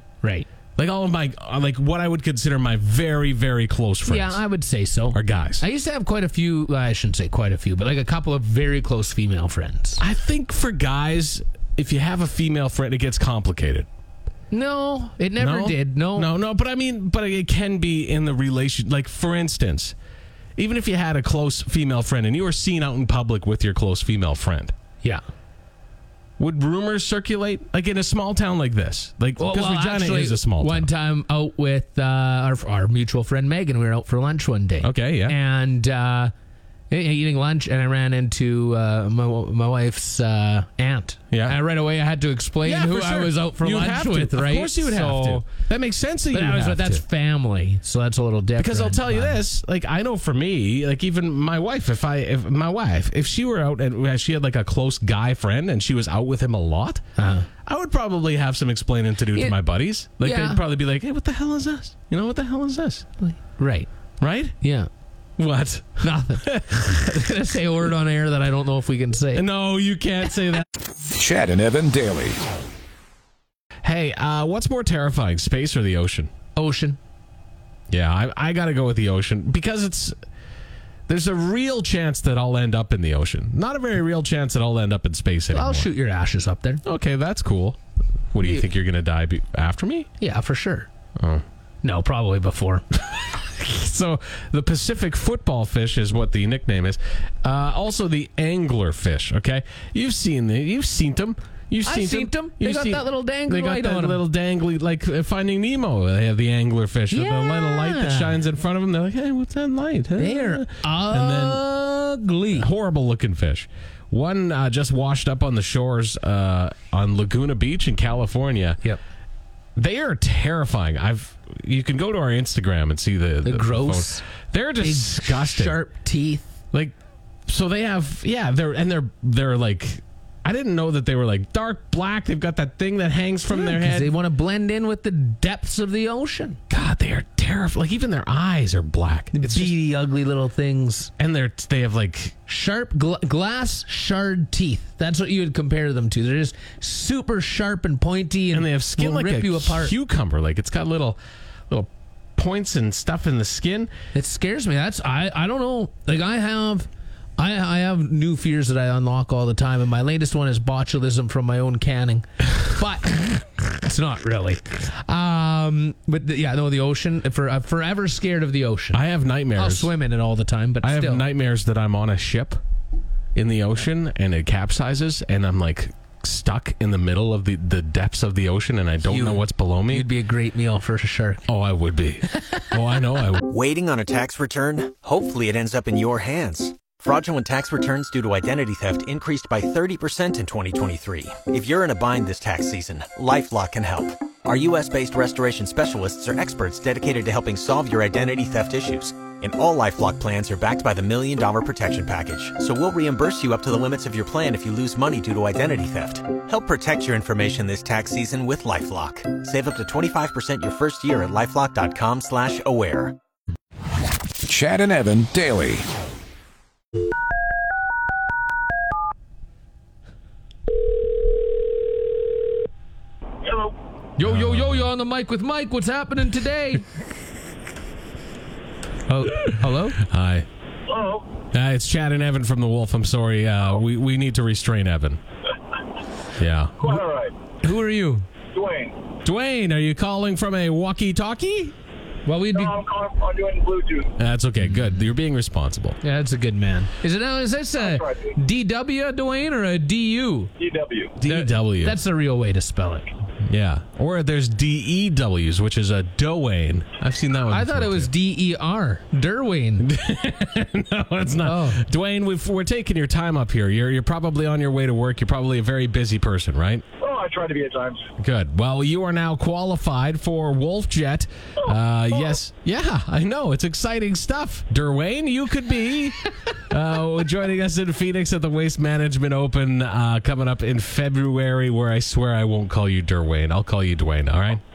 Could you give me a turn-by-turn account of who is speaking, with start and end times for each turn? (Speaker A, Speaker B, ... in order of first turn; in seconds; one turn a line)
Speaker A: 0.2-0.5
Speaker B: 0.8-4.4
Speaker A: 4.0-10.0
Speaker B: 5.1-5.6
Speaker B: 10.0-13.9
Speaker A: 14.5-16.3
Speaker B: 15.4-19.9
Speaker B: 20.6-24.7
Speaker B: 26.4-30.9
Speaker A: 29.4-36.3
Speaker B: 34.8-35.4
Speaker A: 36.9-45.4
Speaker B: 41.3-41.6
Speaker B: 42.6-47.0
Speaker A: 46.3-49.4
Speaker B: 48.6-57.0
Speaker A: 57.2-57.5
Speaker B: 57.6-63.0
Speaker A: 60.2-60.6
Speaker A: 63.2-63.9
Speaker B: 64.2-64.5
Speaker A: 64.6-64.9
Speaker B: 65.4-67.1
Speaker A: 66.0-69.4
Speaker B: 69.3-70.6
Speaker C: 71.1-72.4
Speaker B: 73.8-76.3
Speaker A: 76.5-77.0
Speaker B: 77.9-80.1
Speaker B: 81.1-85.9
Speaker A: 85.5-86.8
Speaker B: 86.8-87.8
Speaker B: 88.3-90.1
Speaker A: 90.2-90.9
Speaker A: 91.8-92.8
Speaker B: 93.1-111.7
Speaker A: 101.8-104.2
Speaker A: 107.1-108.4
Speaker A: 110.2-112.7
Speaker B: 112.5-118.8
Speaker B: 119.8-125.8
Speaker A: 123.4-124.2
Speaker A: 124.8-126.5
Speaker B: 127.5-134.1
Speaker A: 133.5-136.6
Speaker B: 136.7-139.7
Speaker A: 139.3-141.1
Speaker B: 141.2-142.3
Speaker A: 142.5-149.9
Speaker B: 148.5-151.2
Speaker B: 151.7-153.9
Speaker A: 154.1-169.0
Speaker B: 168.9-169.9
Speaker A: 169.5-171.2
Speaker B: 170.8-172.6
Speaker B: 173.3-180.1
Speaker A: 179.0-181.4
Speaker B: 181.5-183.5
Speaker D: 183.5-213.2
Speaker C: 214.4-215.8
Speaker E: 223.4-223.7
Speaker A: 224.2-226.8
Speaker B: 224.2-224.9
Speaker A: 229.1-230.0
Speaker B: 229.4-230.5
Speaker E: 230.9-231.2
Speaker B: 231.5-235.2
Speaker B: 236.4-237.0
Speaker E: 236.8-237.3
Speaker A: 237.6-238.3
Speaker E: 238.5-238.9
Speaker B: 239.2-241.7
Speaker A: 242.2-242.8
Speaker E: 242.6-244.1
Speaker B: 244.2-246.0
Speaker A: 246.0-250.5
Speaker E: 247.8-248.3
Speaker E: 250.6-251.1
Speaker B: 251.2-252.0
Speaker A: 251.2-253.1
Speaker B: 253.4-258.1
Speaker A: 257.5-259.9
Speaker B: 259.8-266.8
Speaker A: 261.4-261.8
Speaker E: 267.0-268.0
Speaker B: 268.2-284.6